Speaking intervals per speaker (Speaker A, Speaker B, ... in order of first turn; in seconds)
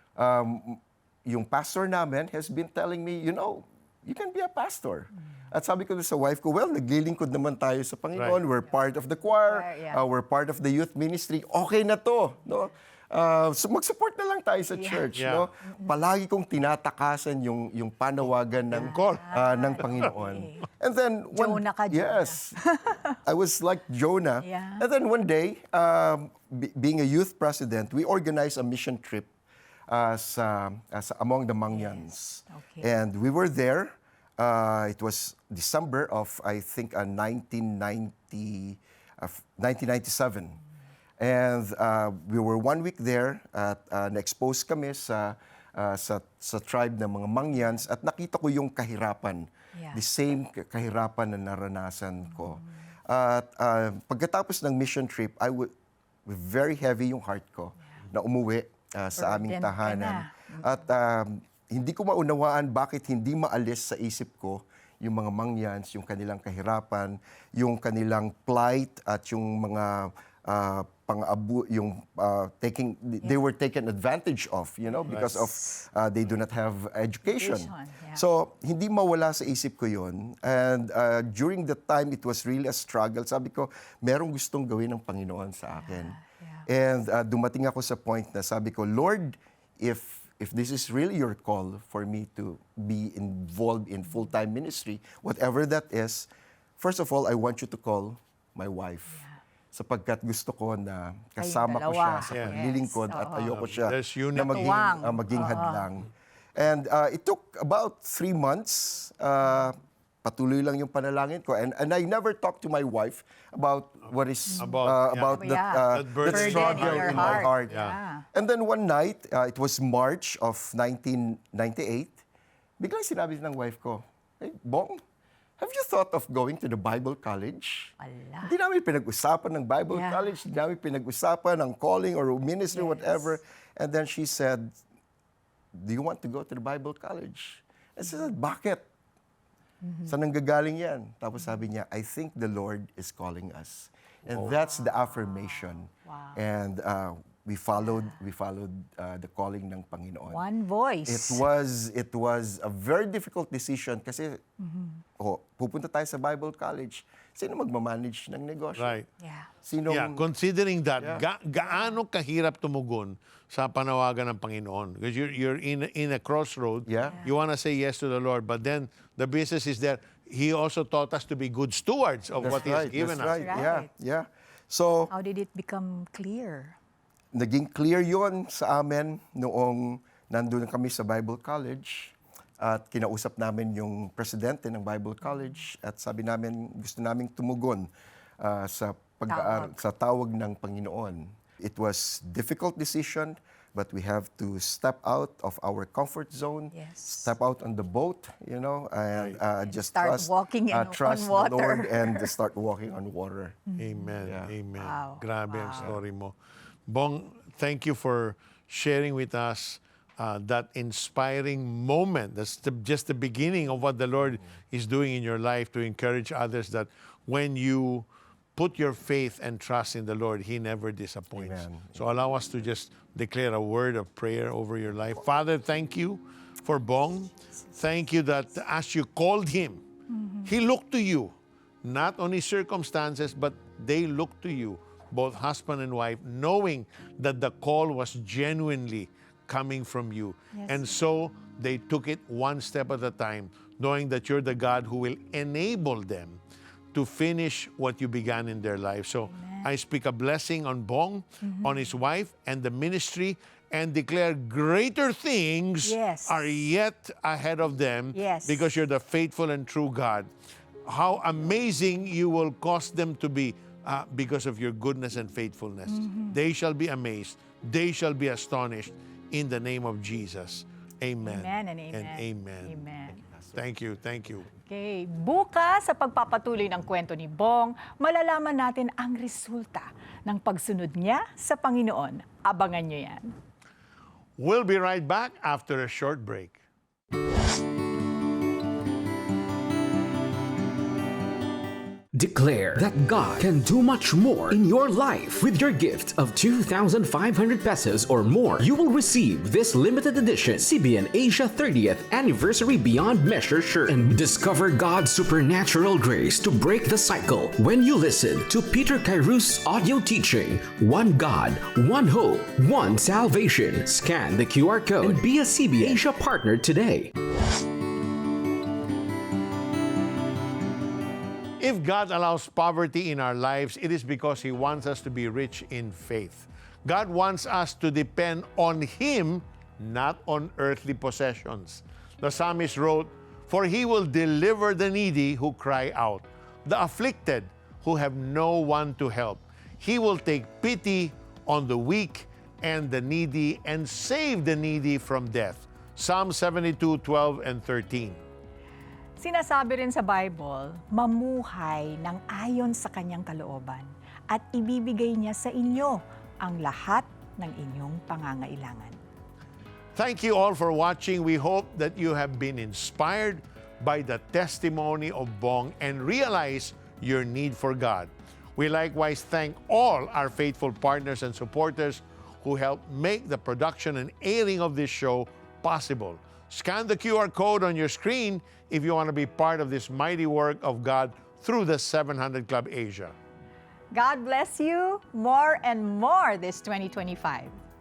Speaker A: 0.2-22.6, 23.2-29.3, 29.9-40.6, 41.2-55.7, 56.2-99.2, 99.7-117.8, 118.3-122.2, 122.8-125.0, 125.6-134.8, 135.7-138.8, 140.1-150.4, 151.1-154.4, 155.2-159.0, 159.6-160.2, 161.0-161.2, 166.8-167.2, 172.4-175.1, 177.3-203.6, 204.2-204.5, 221.3-222.1, 273.2-273.6
Speaker B: 9.4-10.0, 14.7-15.1, 15.6-15.9, 18.7-20.6, 21.3-23.1, 24.4-24.9, 31.7-32.9, 49.7-50.0, 59.2-60.7, 74.9-75.2, 77.2-78.2, 85.8-86.7, 101.4-103.5, 104.4-105.9, 114.5-118.2, 128.0-128.5, 129.9-130.3, 132.7-133.3, 139.8-140.1, 144.5-146.4, 150.3-151.4, 154.6-155.0, 159.2-159.5, 167.0-167.3, 173.3-173.9, 175.1-176.8, 189.3-189.7, 196.7-197.3, 199.7-202.3, 203.7-204.2, 204.8-205.9, 230.1-230.5, 240.5-240.8, 249.3-249.7, 251.4-251.8, 255.8-256.6, 258.1-258.7, 265.9-266.4, 271.2-273.2, 274.7-283.3, 349.2-359.0, 383.9-387.5
Speaker C: 15.2-15.5, 18.7-19.2, 75.1-75.4, 102.3-102.6, 103.4-104.7, 114.6-118.0, 158.8-159.1, 159.9-173.5, 203.8-206.3, 206.9-229.8, 230.4-231.3, 231.8-246.4, 246.9-260.3, 260.8-272.8, 273.5-274.5, 284.4-286.6, 321.6-348.2, 359.9-383.1
Speaker D: 292.1-317.1